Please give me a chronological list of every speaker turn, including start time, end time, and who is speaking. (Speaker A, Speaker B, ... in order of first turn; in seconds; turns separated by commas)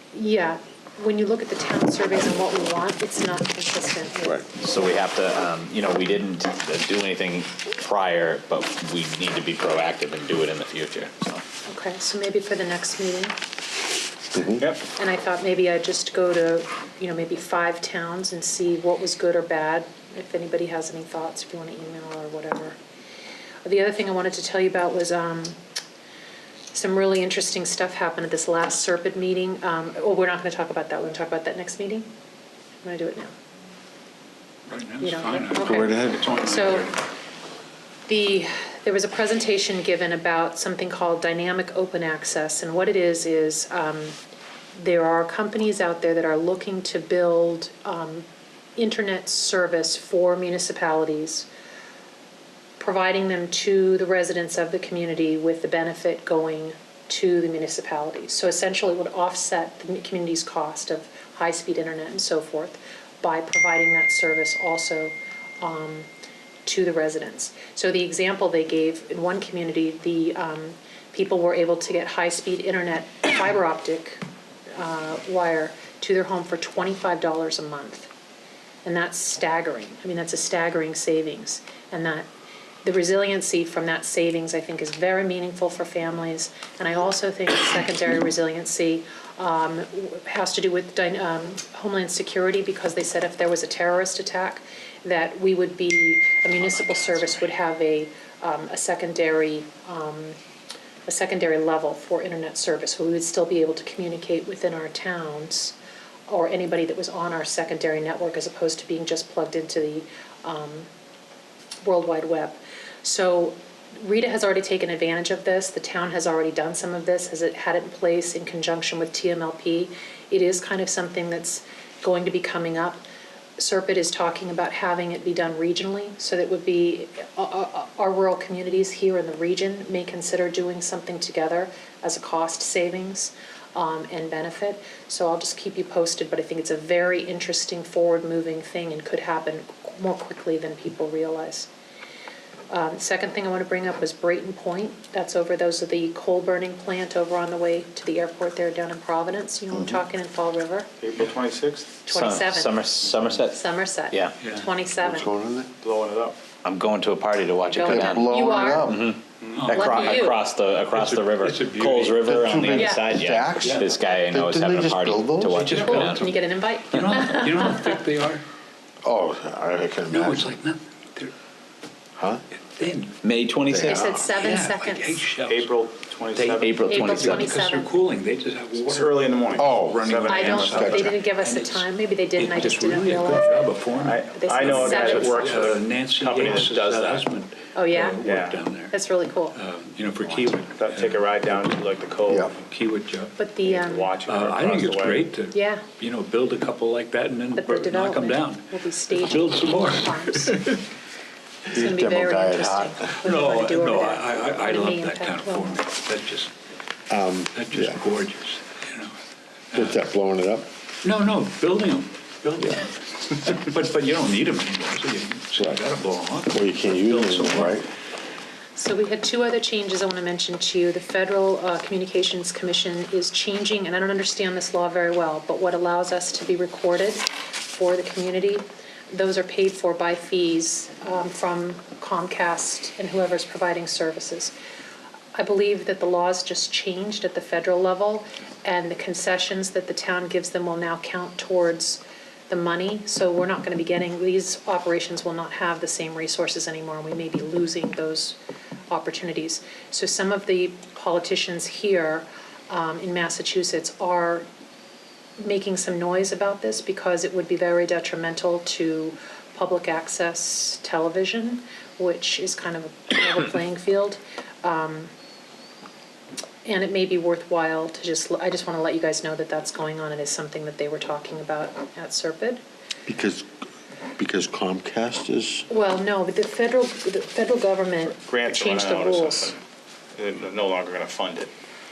Speaker A: 0.1-4.5, Speaker B: 4.6-11.4, Speaker A: 11.7-13.3, Speaker C: 14.3-14.6, Speaker A: 14.9-22.8, Speaker A: 23.6-25.6, Speaker A: 26.7-32.0, Speaker A: 32.8-33.3, Speaker D: 34.7-37.0, Speaker A: 35.0-36.9, Speaker C: 35.6-36.2, Speaker A: 38.1-44.2, Speaker A: 44.7-48.2, Speaker A: 48.8-51.5, Speaker A: 52.8-66.1, Speaker A: 66.7-74.2, Speaker A: 74.7-78.1, Speaker A: 78.8-82.3, Speaker A: 82.8-100.4, Speaker D: 96.6-97.5, Speaker A: 101.0-105.8, Speaker A: 106.3-110.9, Speaker A: 111.8-123.0, Speaker A: 123.6-141.7, Speaker A: 142.7-150.9, Speaker E: 151.0-152.0, Speaker B: 152.0-154.3, Speaker A: 152.1-152.8, Speaker A: 153.5-155.3, Speaker D: 154.4-154.7, Speaker C: 155.0-155.7, Speaker E: 155.8-156.4, Speaker B: 156.6-166.2, Speaker A: 157.6-159.0, Speaker C: 157.8-159.1, Speaker E: 159.4-159.6, Speaker D: 159.5-160.2, Speaker A: 159.7-160.4, Speaker D: 160.9-162.3, Speaker C: 162.2-165.7, Speaker A: 162.7-163.1, Speaker D: 163.6-163.9, Speaker D: 165.6-168.4, Speaker A: 165.7-168.0, Speaker B: 166.9-167.2, Speaker C: 169.0-170.5, Speaker D: 170.1-171.3, Speaker C: 172.2-172.4, Speaker D: 172.7-173.1, Speaker B: 173.2-174.1, Speaker C: 173.7-174.2, Speaker A: 173.8-175.2, Speaker D: 174.3-175.7, Speaker E: 175.4-177.1, Speaker D: 176.3-188.9, Speaker B: 176.5-177.5, Speaker A: 176.8-177.9, Speaker E: 178.8-181.0, Speaker C: 179.6-181.1, Speaker A: 180.2-183.7, Speaker E: 184.0-187.2, Speaker A: 184.3-185.5, Speaker A: 187.7-188.2, Speaker E: 188.2-188.6, Speaker A: 188.9-189.6, Speaker D: 189.5-191.7, Speaker A: 190.2-190.5, Speaker E: 190.7-192.5, Speaker D: 192.5-193.3, Speaker A: 193.4-194.1, Speaker E: 193.6-195.3, Speaker D: 194.2-200.8, Speaker A: 195.5-195.9, Speaker A: 197.6-200.7, Speaker C: 201.7-203.1, Speaker A: 201.7-205.8, Speaker D: 203.2-206.5, Speaker C: 207.1-208.0, Speaker D: 207.5-209.2, Speaker C: 209.7-210.7, Speaker D: 211.0-217.8, Speaker C: 216.5-217.9, Speaker A: 218.8-234.5, Speaker A: 235.3-248.4, Speaker A: 248.9-254.4, Speaker A: 255.4-265.1, Speaker A: 266.6-272.6, Speaker C: 273.1-273.5, Speaker C: 274.2-275.7, Speaker A: 275.7-279.5, Speaker E: 278.2-279.6, Speaker E: 280.1-281.5